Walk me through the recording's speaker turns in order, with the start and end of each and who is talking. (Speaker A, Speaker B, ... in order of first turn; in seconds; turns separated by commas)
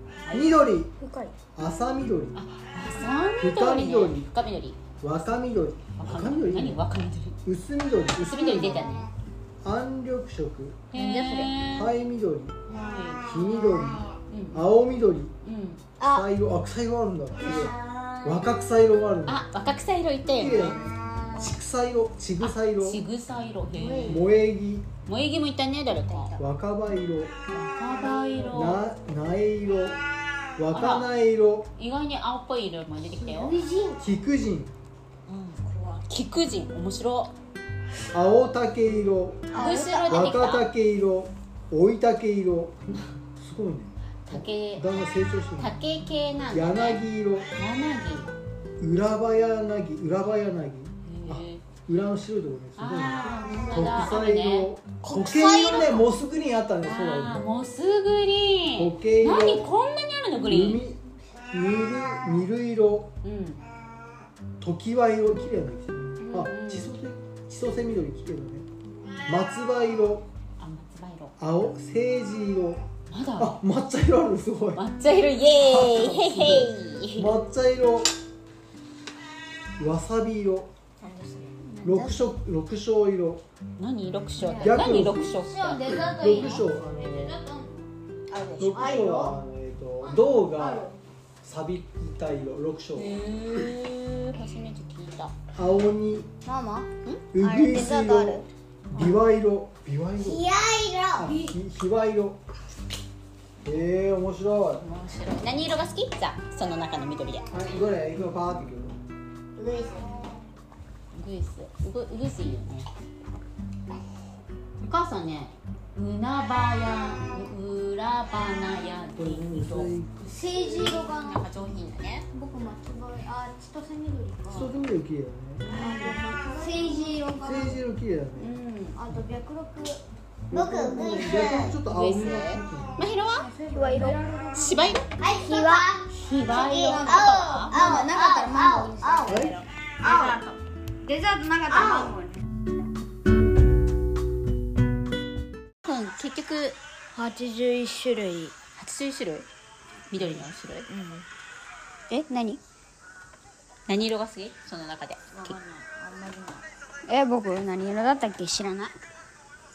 Speaker A: 0.2-0.5, Speaker B: 0.3-0.9, Speaker C: 1.0-1.3, Speaker B: 1.6-2.4, Speaker A: 2.3-4.8, Speaker B: 3.4-4.3, Speaker B: 5.0-6.8, Speaker A: 6.0-7.4, Speaker B: 7.4-8.9, Speaker A: 8.2-9.1, Speaker D: 8.6-9.1, Speaker B: 9.6-10.9, Speaker A: 10.9-11.9, Speaker C: 10.9-11.6, Speaker B: 11.7-12.6, Speaker A: 12.7-14.7, Speaker B: 13.2-15.3, Speaker A: 15.4-15.8, Speaker D: 16.0-16.3, Speaker B: 16.1-17.7, Speaker D: 17.4-18.4, Speaker B: 18.2-19.5, Speaker A: 19.2-20.8, Speaker B: 20.3-23.0, Speaker A: 22.4-24.3, Speaker D: 23.8-24.2, Speaker B: 24.0-24.9, Speaker A: 25.1-26.4, Speaker D: 26.1-26.3, Speaker B: 26.4-27.3, Speaker A: 27.5-28.8, Speaker D: 27.9-28.5, Speaker B: 28.5-30.0, Speaker B: 30.6-31.7, Speaker A: 30.7-31.1, Speaker A: 31.8-33.6, Speaker D: 33.1-34.0, Speaker B: 34.0-34.7, Speaker C: 35.3-36.0, Speaker A: 36.1-37.3, Speaker B: 38.1-45.7, Speaker C: 39.5-40.0, Speaker A: 39.5-40.7, Speaker D: 39.6-40.0, Speaker A: 44.3-47.0, Speaker B: 46.5-47.5, Speaker A: 47.5-48.3, Speaker B: 48.8-57.4, Speaker A: 51.0-51.6, Speaker A: 52.8-54.7, Speaker C: 55.0-56.0, Speaker D: 55.4-55.8, Speaker A: 56.8-60.8, Speaker B: 58.8-59.7, Speaker B: 60.4-63.1, Speaker A: 63.2-63.6, Speaker B: 64.6-68.7, Speaker A: 66.2-66.9, Speaker B: 69.2-70.2, Speaker A: 70.6-71.3, Speaker B: 71.4-72.8, Speaker A: 73.1-73.6, Speaker B: 73.4-74.8, Speaker A: 74.8-77.3, Speaker B: 75.6-78.1, Speaker B: 79.8-80.7, Speaker C: 81.0-82.2, Speaker B: 81.8-83.4, Speaker A: 83.8-86.1, Speaker C: 84.4-87.8, Speaker B: 84.5-87.4, Speaker D: 88.3-89.3, Speaker B: 88.6-90.9, Speaker C: 88.8-89.3, Speaker C: 90.0-90.9, Speaker B: 91.4-93.2, Speaker A: 93.0-95.3, Speaker B: 95.5-96.3, Speaker C: 96.4-96.9, Speaker B: 97.3-100.4, Speaker D: 97.4-97.7, Speaker C: 97.4-98.4, Speaker D: 100.2-101.3, Speaker B: 101.1-102.4, Speaker B: 103.6-104.8, Speaker A: 104.8-107.5, Speaker B: 107.5-109.0, Speaker D: 109.5-110.4, Speaker A: 111.1-112.9, Speaker A: 114.8-122.3, Speaker B: 119.2-120.3, Speaker C: 120.3-121.5, Speaker C: 122.3-124.8, Speaker B: 124.5-125.6, Speaker A: 125.6-126.2, Speaker C: 125.7-127.8, Speaker B: 127.4-128.5, Speaker A: 128.4-129.0, Speaker C: 128.9-130.0, Speaker B: 130.5-133.0, Speaker D: 130.5-131.8, Speaker C: 131.0-131.3, Speaker A: 131.6-133.5, Speaker C: 133.4-135.9, Speaker D: 133.7-134.2, Speaker A: 134.5-135.0, Speaker D: 135.2-140.4, Speaker A: 136.1-137.8, Speaker C: 136.4-142.4, Speaker B: 139.3-139.6, Speaker D: 141.7-142.2, Speaker A: 145.8-146.8, Speaker C: 147.1-148.5, Speaker A: 148.8-149.5, Speaker A: 150.1-150.9, Speaker C: 150.9-151.2, Speaker C: 152.1-152.6, Speaker A: 153.9-155.6, Speaker C: 155.3-158.9